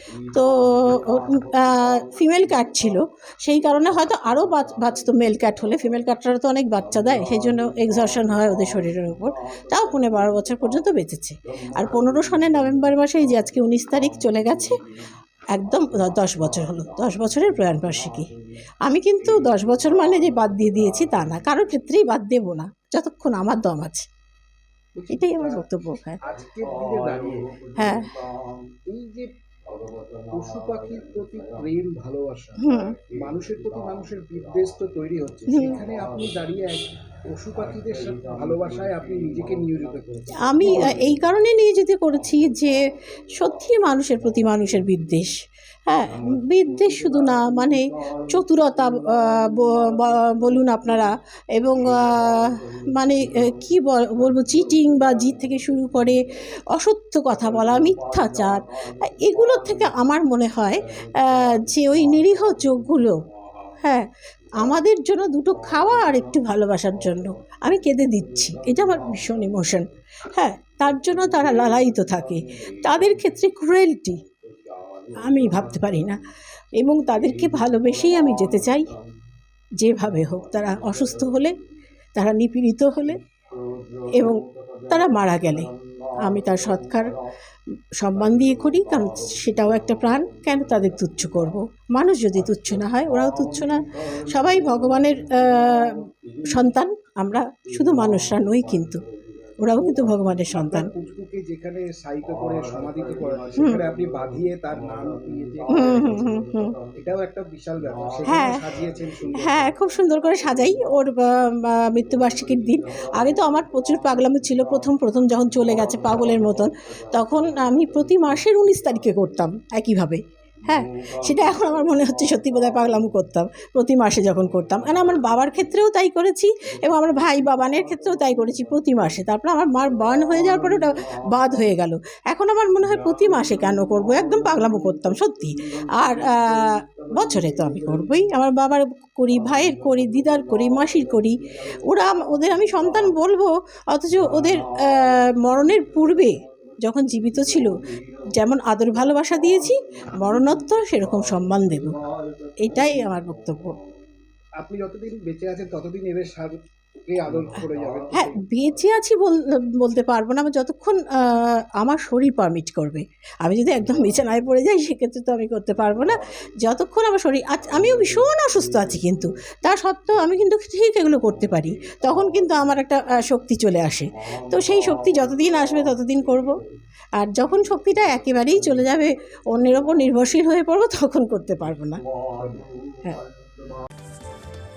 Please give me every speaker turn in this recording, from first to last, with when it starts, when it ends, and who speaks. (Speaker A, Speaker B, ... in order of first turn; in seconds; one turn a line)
Speaker A: 0.3-14.8
Speaker A: 15.5-18.3
Speaker A: 18.9-24.1
Speaker B: 24.9-28.0
Speaker A: 25.1-26.2
Speaker A: 27.8-28.1
Speaker B: 28.9-29.3
Speaker B: 30.3-41.2
Speaker A: 32.6-33.0
Speaker A: 35.5-35.8
Speaker A: 40.5-45.3
Speaker A: 45.9-63.2
Speaker A: 63.8-64.1
Speaker A: 64.6-74.2
Speaker A: 75.2-76.2
Speaker A: 76.8-79.0
Speaker A: 79.8-81.6
Speaker A: 82.2-83.2
Speaker A: 84.2-85.7
Speaker A: 86.2-87.2
Speaker A: 88.0-99.0
Speaker A: 99.6-100.9
Speaker B: 100.5-109.7
Speaker A: 105.7-106.8
Speaker A: 108.3-108.6
Speaker A: 109.4-147.7
Speaker A: 148.4-152.0
Speaker A: 152.6-153.8
Speaker B: 154.6-158.4
Speaker A: 158.2-176.6
Speaker A: 177.2-182.0